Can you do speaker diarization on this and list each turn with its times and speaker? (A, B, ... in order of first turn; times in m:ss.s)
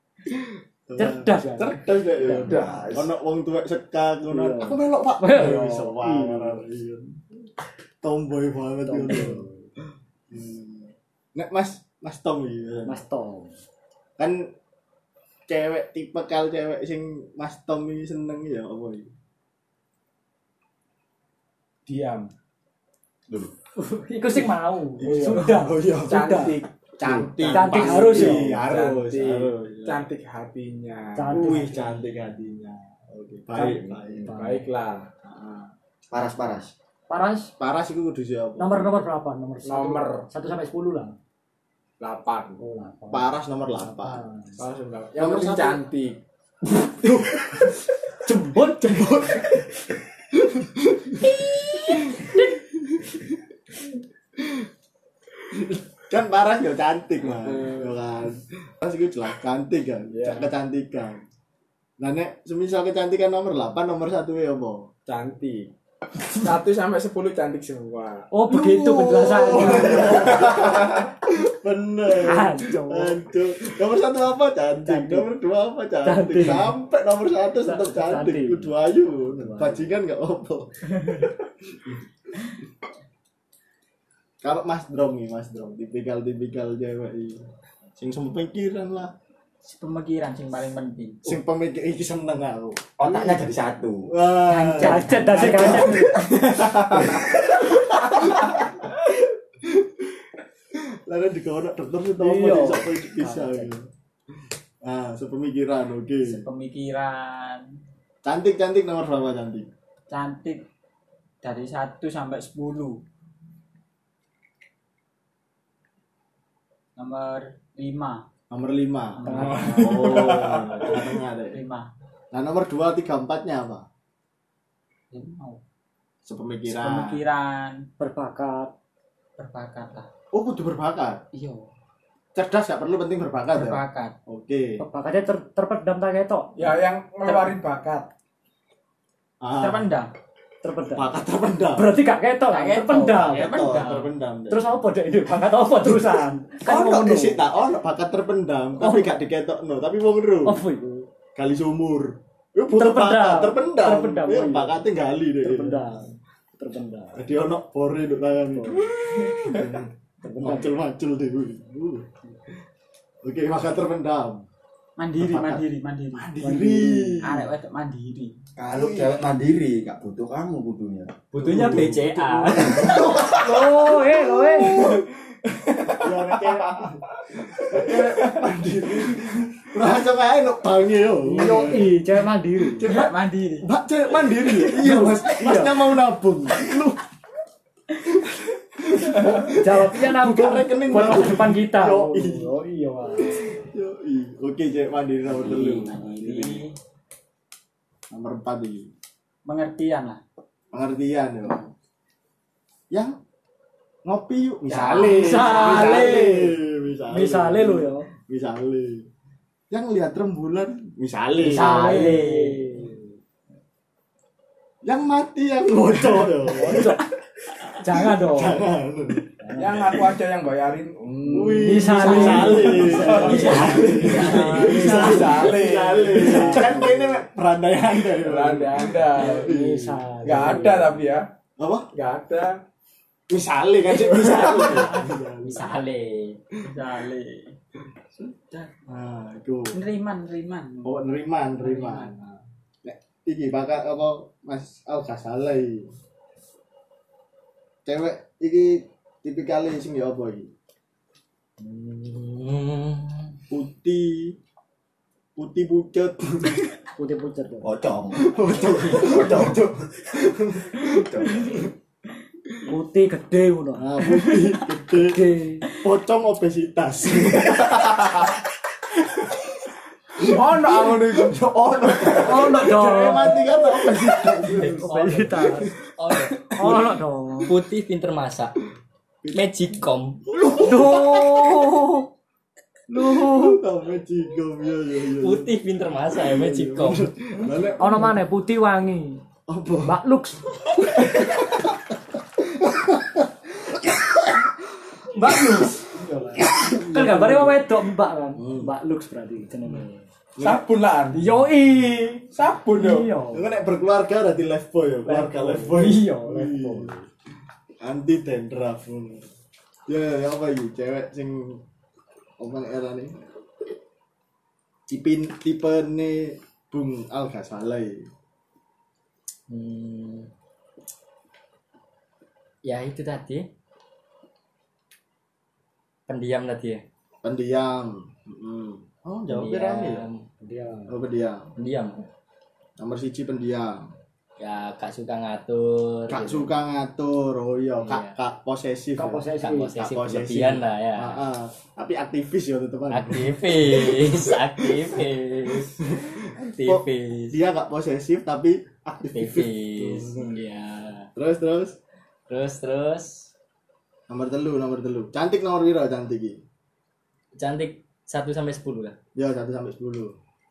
0:00.3-0:07.1 A
0:01.0-0:02.5 B
0:02.2-0:03.1 C
0:04.3-0:06.6 B
0:08.0-0:09.4 A
0:08.8-0:09.7 B
0:10.3-0:13.0 A
0:12.8-0:13.6 B
0:14.2-0:14.5 A
0:15.5-0:19.1 A
0:21.9-0:22.3 D
0:23.8-0:26.6 B
0:25.0-0:26.2 A
0:25.0-0:25.5 D
0:26.0-0:31.6 D
0:27.0-0:30.0 A
0:27.5-0:28.5 B
0:31.2-0:31.9 B
0:31.3-0:34.4 A
0:33.5-0:34.6 B
0:34.2-0:35.1 D
0:35.2-0:35.7 A
0:36.1-0:36.7 C
0:37.1-0:37.5 B
0:37.6-0:39.0 A
0:38.6-0:41.1 B
0:39.6-0:40.3 D
0:42.0-0:42.6 D
0:42.6-0:44.6 B
0:43.1-0:44.2 A
0:44.6-0:46.2 D
0:45.2-0:45.8 B
0:47.0-0:47.4 A
0:48.2-0:49.2 B
0:48.8-0:49.6 A
0:50.4-0:51.3 A
0:51.9-0:53.2 A
0:55.5-1:01.2 A
0:57.2-0:58.0 D
1:00.1-1:00.5 D
1:02.0-1:04.9 A
1:05.1-1:05.7 D
1:06.4-1:08.3 D
1:08.3-1:10.4 B
1:08.5-1:21.3 A
1:12.2-1:13.2 B
1:14.8-1:15.3 B
1:16.0-1:16.7 B
1:17.6-1:18.7 B
1:19.4-1:19.8 B
1:24.4-1:27.5 A
1:28.0-1:29.1 A
1:29.6-1:31.4 E
1:31.2-1:33.5 A
1:33.0-1:34.1 C
1:34.1-1:39.1 A
1:34.4-1:35.8 E
1:34.8-1:36.2 B
1:36.2-1:37.1 C
1:39.6-1:39.9 A
1:40.7-1:43.9 A
1:42.2-1:43.7 B
1:44.8-1:46.4 A
1:46.2-1:47.7 E
1:48.2-1:49.7 A
1:50.1-1:50.6 E
1:51.4-1:53.0 E
1:57.0-1:58.2 E
1:58.5-2:01.6 A
1:59.2-2:00.0 E
1:59.2-1:59.8 B
1:59.4-2:01.0 D
2:01.5-2:01.9 E
2:02.3-2:03.8 A
2:05.1-2:05.6 E
2:06.2-2:07.2 A
2:06.6-2:07.8 E
2:08.0-2:08.7 B
2:09.4-2:10.1 E
2:10.3-2:11.2 A
2:11.3-2:11.7 E
2:12.3-2:14.8 A
2:13.5-2:14.1 E
2:14.8-2:16.6 B
2:16.6-2:18.1 D
2:19.4-2:19.9 A
2:19.6-2:20.1 E
2:20.6-2:21.2 B
2:20.9-2:21.9 A
2:21.7-2:23.5 B
2:22.5-2:24.1 E
2:23.2-2:24.8 A
2:24.5-2:27.4 B
2:26.6-2:30.6 A
2:28.8-2:29.2 B
2:30.4-2:31.1 B
2:31.4-2:35.9 A
2:32.7-2:34.8 B
2:35.4-2:37.3 B
2:37.1-2:42.1 A
2:38.5-2:38.9 B
2:40.2-2:40.8 B
2:43.2-2:44.4 A
2:45.0-2:46.4 E
2:45.2-2:47.5 A
2:46.4-2:47.2 B
2:47.2-2:48.4 E
2:48.6-2:51.2 C
2:48.7-2:49.2 A
2:51.4-2:53.4 E
2:51.4-2:52.8 F
2:51.4-2:54.8 B
2:51.4-2:52.0 A
2:52.6-2:55.0 A
2:55.7-2:56.9 D
2:56.0-3:02.0 A
2:57.7-2:58.4 D
3:01.2-3:02.9 B
3:02.6-3:07.0 A
3:02.8-3:03.7 E
3:04.5-3:05.8 B
3:08.2-3:12.5 A
3:09.2-3:13.4 B
3:13.2-3:16.6 A
3:15.3-3:16.8 E
3:18.1-3:18.9 A
3:19.4-3:20.2 E
3:20.7-3:21.7 A
3:24.0-3:29.1 A
3:24.6-3:26.4 E
3:25.0-3:26.5 B
3:27.1-3:28.1 B
3:29.7-3:32.2 A
3:31.4-3:33.0 B
3:31.4-3:32.8 E
3:34.8-3:37.0 A
3:36.1-3:37.0 B
3:37.8-3:38.6 B
3:38.0-3:39.2 A
3:39.4-3:40.0 B
3:39.6-3:46.8 D
3:41.3-3:50.2 A
3:41.6-3:45.4 B
3:43.3-3:44.8 E
3:46.2-3:46.9 B
3:48.2-3:49.5 D
3:49.2-3:51.0 B
3:50.2-3:51.2 D
3:51.6-3:51.9 A
3:51.9-3:52.5 D
3:53.3-3:55.7 A
3:53.9-3:55.7 E
3:55.5-3:56.4 F
3:56.6-3:57.5 E
3:58.2-3:58.7 E
3:58.9-3:59.8 A
3:59.7-4:01.0 E
4:00.8-4:05.9 A
4:01.6-4:02.1 E
4:07.8-4:10.5 A
4:11.6-4:13.2 F
4:13.5-4:14.4 A
4:15.4-4:16.7 A
4:17.0-4:17.7 B
4:17.6-4:19.9 C
4:18.1-4:21.7 A
4:21.0-4:21.5 C
4:22.7-4:25.6 B
4:23.8-4:25.2 A
4:25.8-4:28.3 A
4:30.2-4:32.3 D
4:30.2-4:35.7 A
4:32.2-4:33.5 B
4:34.5-4:35.7 B
4:34.9-4:35.4 F
4:36.0-4:36.5 F
4:36.6-4:37.5 B
4:36.6-4:36.9 A
4:37.5-4:38.5 F
4:39.3-4:40.2 F
4:40.3-4:41.5 A
4:40.6-4:42.0 B
4:42.9-4:43.6 B
4:43.0-4:45.5 A
4:45.2-4:47.1 F
4:46.1-4:48.2 A
4:47.8-4:49.2 B
4:49.5-4:50.0 A
4:49.8-4:50.5 B
4:51.0-4:51.8 A
4:52.6-4:53.9 A
4:55.2-4:56.2 D
4:55.2-4:55.5 A
4:56.6-4:57.6 A
4:56.8-5:00.0 B
4:58.4-4:58.7 A
5:00.4-5:00.6 A
5:00.4-5:01.4 D
5:01.2-5:03.6 B
5:02.3-5:03.1 D
5:03.3-5:06.9 A
5:05.0-5:07.0 B
5:07.8-5:09.2 A
5:09.9-5:11.6 A
5:12.4-5:13.2 A
5:14.9-5:18.1 A
5:19.5-5:20.3 F
5:22.6-5:23.5 F
5:26.1-5:26.8 F
5:27.2-5:30.0 A
5:29.3-5:30.2 F
5:30.4-5:31.0 B
5:30.9-5:31.5 A
5:31.6-5:32.0 F
5:32.8-5:33.9 A
5:34.4-5:36.5 F
5:36.1-5:45.0 A
5:37.8-5:38.1 F
5:39.0-5:39.7 B
5:39.4-5:41.2 F
5:42.9-5:47.4 F
5:45.8-5:50.4 A
5:49.1-5:51.1 F
5:51.2-5:51.8 A
5:52.3-5:53.3 F
5:54.1-5:56.4 A
5:57.3-5:59.0 F
5:59.2-6:00.1 A